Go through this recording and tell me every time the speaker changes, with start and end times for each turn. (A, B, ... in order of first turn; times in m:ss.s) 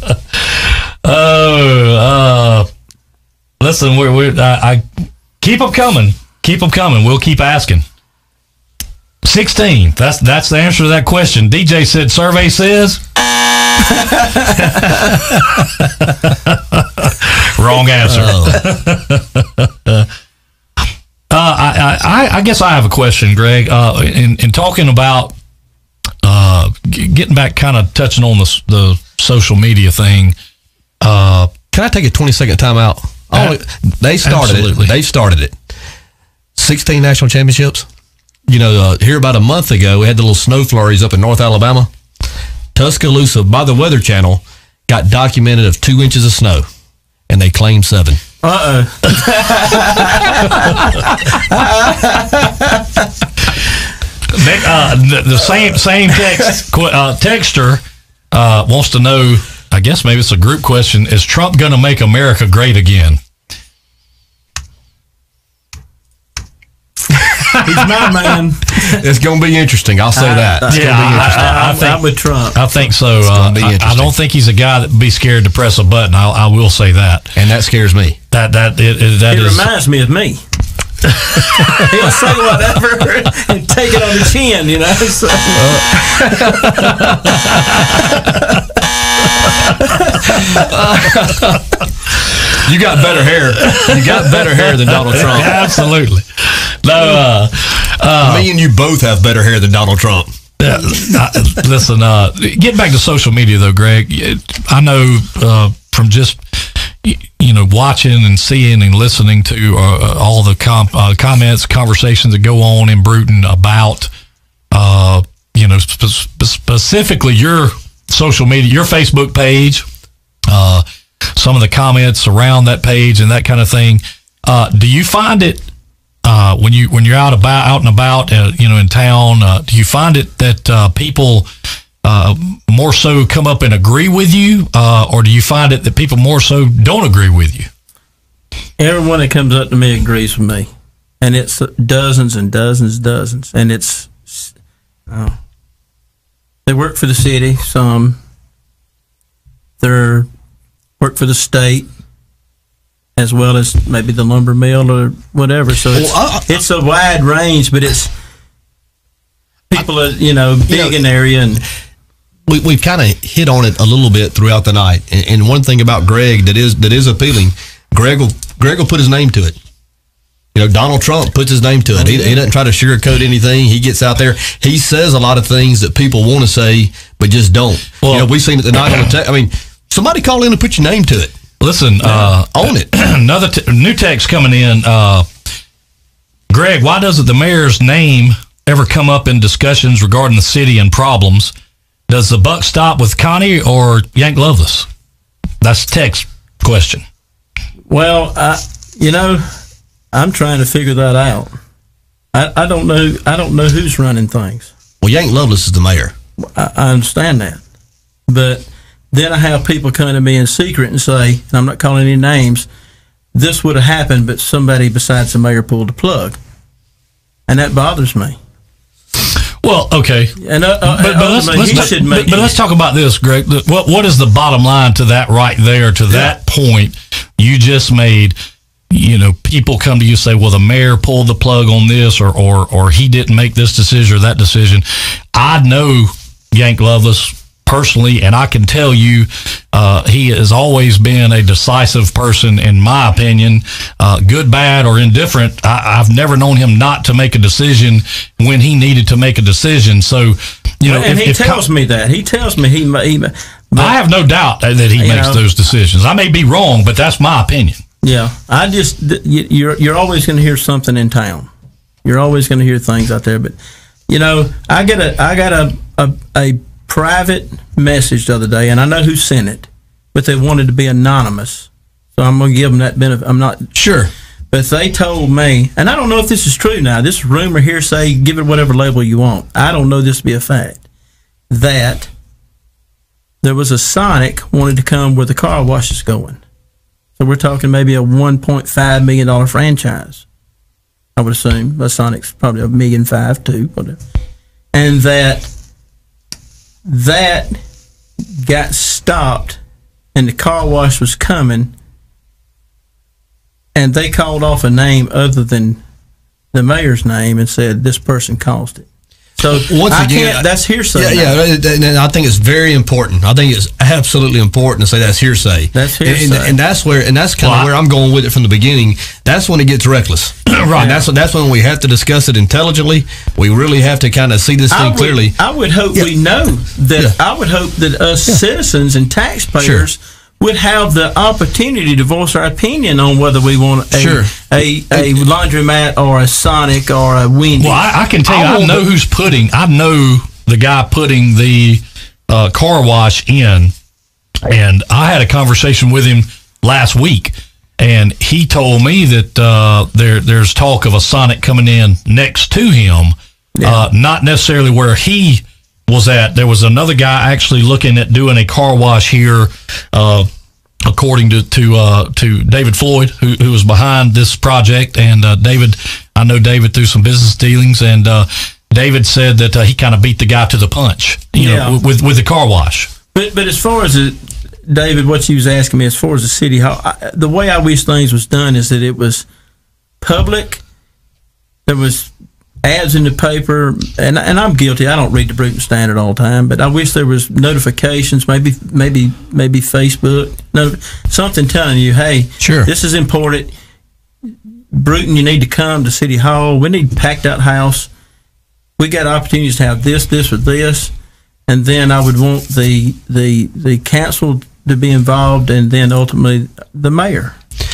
0:00.4-0:02.7 A
0:03.6-0:04.8 A
0:05.4-0:07.8 A
0:09.2-0:13.0 A
0:14.5-0:20.1 A
0:18.1-0:18.6 B
0:21.3-0:25.3 A
0:26.2-0:30.3 A
0:31.0-0:31.5 A
0:31.7-0:35.5 B
0:33.3-0:33.6 A
0:34.2-0:34.9 A
0:36.6-0:37.9 B
0:38.5-0:41.9 B
0:42.7-0:46.6 B
0:47.3-0:48.2 B
0:48.4-0:52.8 C
0:54.3-0:57.8 A
0:58.3-1:03.2 A
1:07.6-1:09.0 C
1:08.8-1:11.5 B
1:10.2-1:12.6 C
1:10.7-1:17.3 A
1:13.2-1:14.1 B
1:17.4-1:18.2 B
1:18.3-1:19.6 A
1:19.3-1:20.4 C
1:21.2-1:21.7 A
1:21.6-1:27.0 C
1:25.6-1:26.9 B
1:27.2-1:28.2 A
1:30.6-1:31.6 B
1:32.6-1:35.6 B
1:33.6-1:38.5 A
1:38.2-1:40.3 B
1:40.6-1:54.1 A
1:54.7-1:59.8 A
2:00.5-2:00.8 A
2:01.3-2:05.6 A
2:06.2-2:11.5 A
2:12.0-2:17.7 A
2:18.8-2:20.7 C
2:21.2-2:24.5 C
2:25.1-2:25.4 C
2:26.6-2:28.2 C
2:29.8-2:30.3 C
2:31.0-2:31.9 C
2:33.2-2:38.1 C
2:35.9-2:36.5 B
2:39.7-2:41.6 C
2:40.7-2:40.9 B
2:42.5-2:49.6 B
2:50.5-3:01.4 B
2:52.0-2:52.3 C
2:58.0-2:58.3 A
3:01.6-3:05.2 A
3:02.0-3:02.9 B
3:06.5-3:11.5 A
3:12.1-3:14.9 A
3:15.6-3:17.0 A
3:17.9-3:19.6 C
3:20.1-3:21.5 C
3:22.3-3:24.7 C
3:25.0-3:26.1 B
3:26.4-3:27.6 C
3:28.3-3:32.7 C
3:33.3-3:36.4 C
3:37.5-3:38.4 C
3:39.6-3:48.3 A
3:40.4-3:42.6 C
3:48.9-4:11.6 A
4:10.8-4:14.0 C
4:13.8-4:17.8 A
4:15.0-4:15.4 C
4:18.0-4:21.5 C
4:22.0-4:23.6 C
4:24.1-4:33.7 C
4:33.7-4:34.1 B
4:34.5-4:40.8 C
4:41.5-4:42.1 C
4:43.4-4:46.4 C
4:47.2-4:50.2 C
4:51.2-4:54.0 C
4:54.7-4:55.5 C
4:56.8-4:57.6 C
4:58.3-4:59.6 C
5:00.1-5:01.7 C
5:03.7-5:05.8 C
5:06.5-5:08.9 C
5:09.4-5:11.4 C
5:09.5-5:25.4 B
5:15.7-5:16.6 C
5:17.4-5:17.7 A
5:20.5-5:21.0 A
5:20.8-5:21.0 C
5:24.7-5:37.8 C
5:29.6-5:29.9 B
5:33.9-5:34.3 B
5:34.9-5:35.2 B
5:37.6-5:43.7 A
5:38.3-5:38.8 B
5:44.4-6:00.3 A
5:53.6-5:53.8 C
6:00.8-6:12.9 A
6:11.3-6:11.8 C
6:13.1-6:19.2 C
6:20.0-6:20.6 C
6:21.7-6:22.1 C
6:22.6-6:33.5 C
6:32.4-6:32.7 B
6:34.7-6:37.9 C
6:38.8-6:40.9 C
6:41.5-6:47.4 C